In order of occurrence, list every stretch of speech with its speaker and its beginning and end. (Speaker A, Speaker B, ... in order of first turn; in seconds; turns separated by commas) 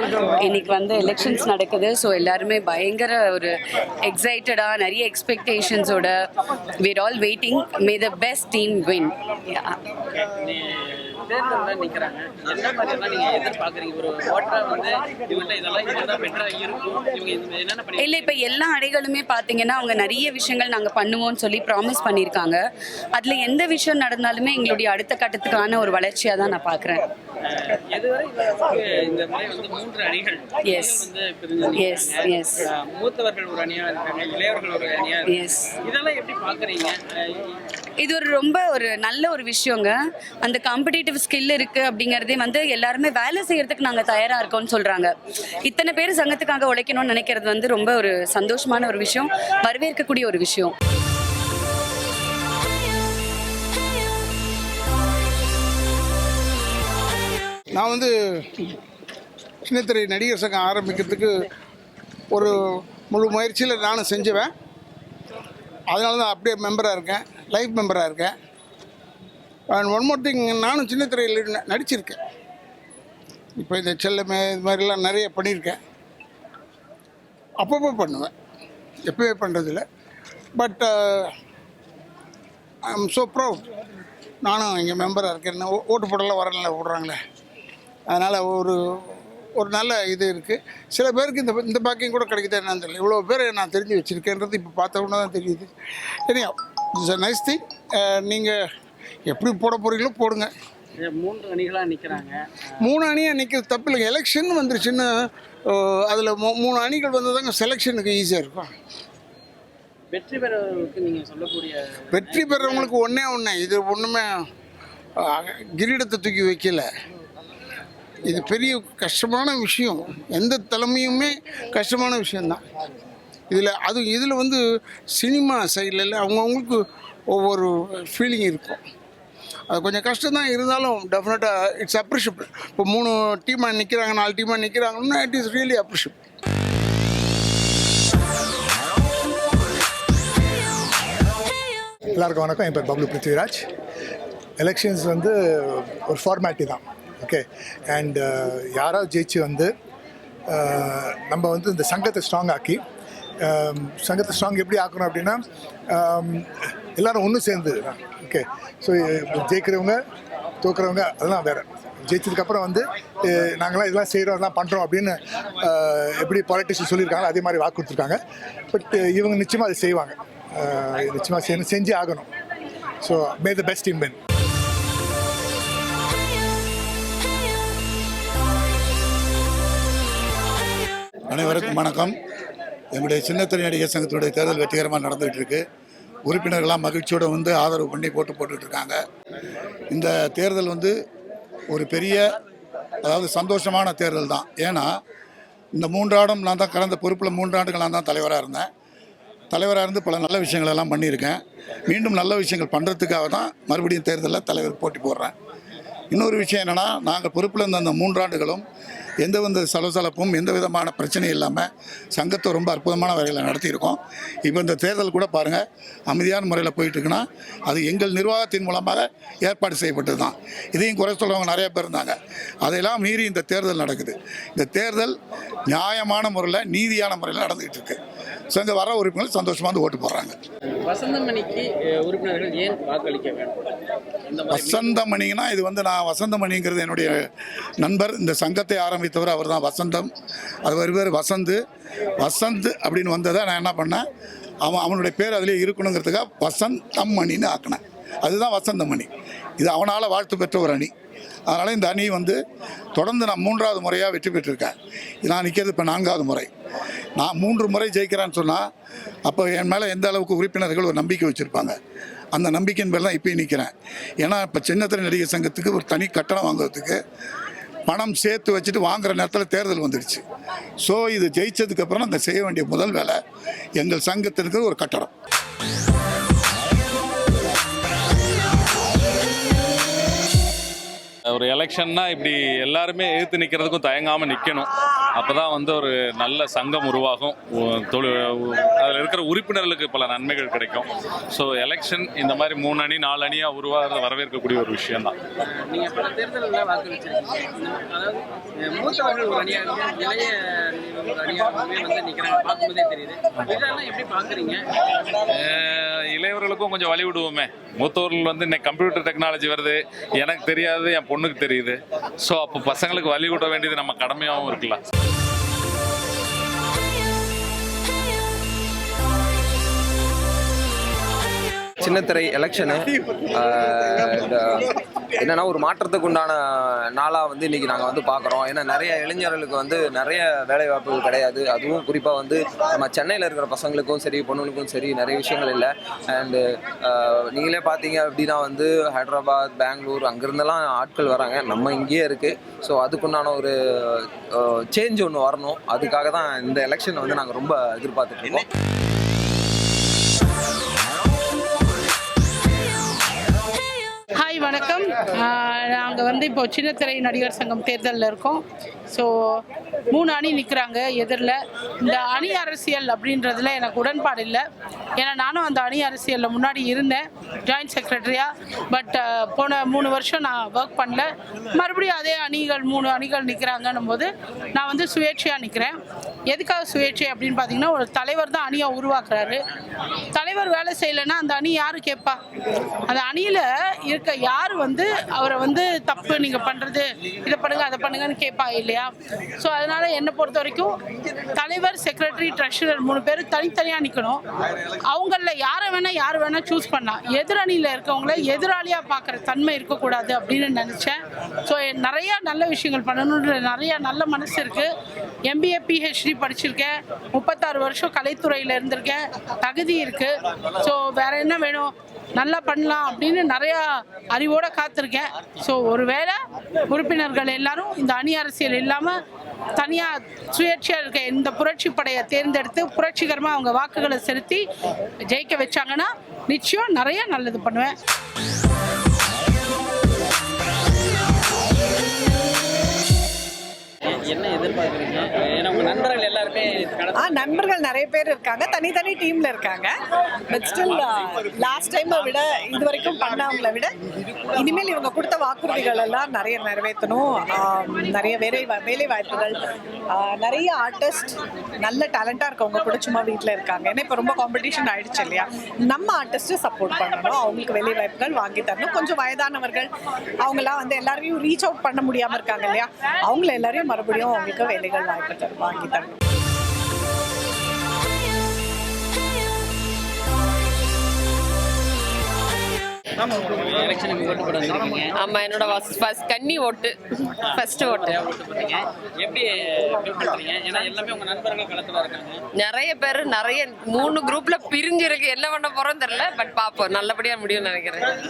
Speaker A: 0.5-3.5, Speaker A: 4.1-6.1, Speaker A: 6.8-9.8, Speaker B: 11.2-18.5, Speaker A: 18.0-22.6, Speaker A: 23.2-27.1, Speaker B: 27.6-37.4, Speaker A: 30.6-31.0, Speaker A: 31.7-32.7, Speaker A: 35.2-35.7, Speaker A: 38.0-45.1, Speaker A: 45.7-50.7, Speaker C: 57.8-58.7, Speaker C: 59.6-61.3, Speaker C: 63.1-64.5, Speaker C: 65.9-68.3, Speaker C: 69.8-72.2, Speaker C: 73.6-75.8, Speaker C: 77.6-78.3, Speaker C: 79.1-79.8, Speaker C: 80.6-81.3, Speaker C: 82.9-83.6, Speaker C: 84.5-87.2, Speaker C: 88.1-95.7, Speaker C: 96.3-98.6, Speaker C: 99.3-100.5, Speaker B: 101.0-102.4, Speaker C: 102.8-105.1, Speaker C: 105.7-108.7, Speaker B: 110.1-112.9, Speaker C: 112.1-114.3, Speaker C: 115.2-116.9, Speaker C: 118.2-122.6, Speaker C: 123.5-124.6, Speaker C: 125.2-128.8, Speaker C: 129.7-136.2, Speaker D: 142.1-143.6, Speaker D: 144.6-149.7, Speaker D: 150.5-152.8, Speaker D: 153.4-155.4, Speaker D: 155.9-160.0, Speaker D: 160.6-168.2, Speaker D: 168.7-172.3, Speaker D: 173.0-174.2, Speaker E: 181.3-182.2, Speaker E: 182.9-185.6, Speaker E: 186.3-189.0, Speaker E: 189.9-190.9, Speaker E: 191.7-192.4, Speaker E: 193.0-194.9, Speaker E: 195.8-198.7, Speaker E: 199.5-205.3, Speaker E: 206.1-208.7, Speaker E: 209.2-225.2, Speaker E: 225.7-228.0, Speaker E: 228.5-230.4, Speaker B: 230.8-233.6, Speaker B: 234.3-235.0, Speaker E: 234.5-237.1, Speaker E: 237.8-240.1, Speaker E: 240.7-241.6, Speaker E: 242.2-244.0, Speaker E: 244.7-250.9, Speaker E: 251.5-252.4, Speaker E: 253.0-254.7, Speaker E: 255.2-256.5, Speaker E: 257.2-258.6, Speaker E: 259.3-261.8, Speaker E: 262.4-263.7, Speaker E: 264.2-267.0, Speaker E: 267.9-270.2, Speaker E: 270.8-273.2, Speaker E: 273.8-275.1, Speaker F: 281.3-295.1, Speaker B: 295.6-304.6, Speaker F: 305.3-314.8, Speaker G: 321.8-322.8, Speaker G: 323.4-324.6, Speaker G: 325.2-326.4, Speaker G: 326.9-343.5, Speaker G: 344.7-348.4, Speaker H: 354.2-364.4, Speaker H: 365.0-375.8, Speaker H: 376.3-379.4, Speaker H: 380.1-382.2, Speaker H: 382.9-390.8, Speaker H: 391.3-394.2, Speaker H: 394.9-404.7, Speaker H: 405.3-419.0, Speaker H: 419.6-424.4, Speaker H: 425.1-427.8, Speaker B: 433.9-437.3, Speaker I: 436.9-439.8, Speaker I: 440.3-443.8, Speaker I: 444.4-459.7, Speaker I: 460.2-466.0, Speaker B: 473.3-474.9, Speaker J: 474.9-476.8, Speaker J: 477.3-478.0, Speaker B: 477.3-482.2, Speaker J: 482.4-487.9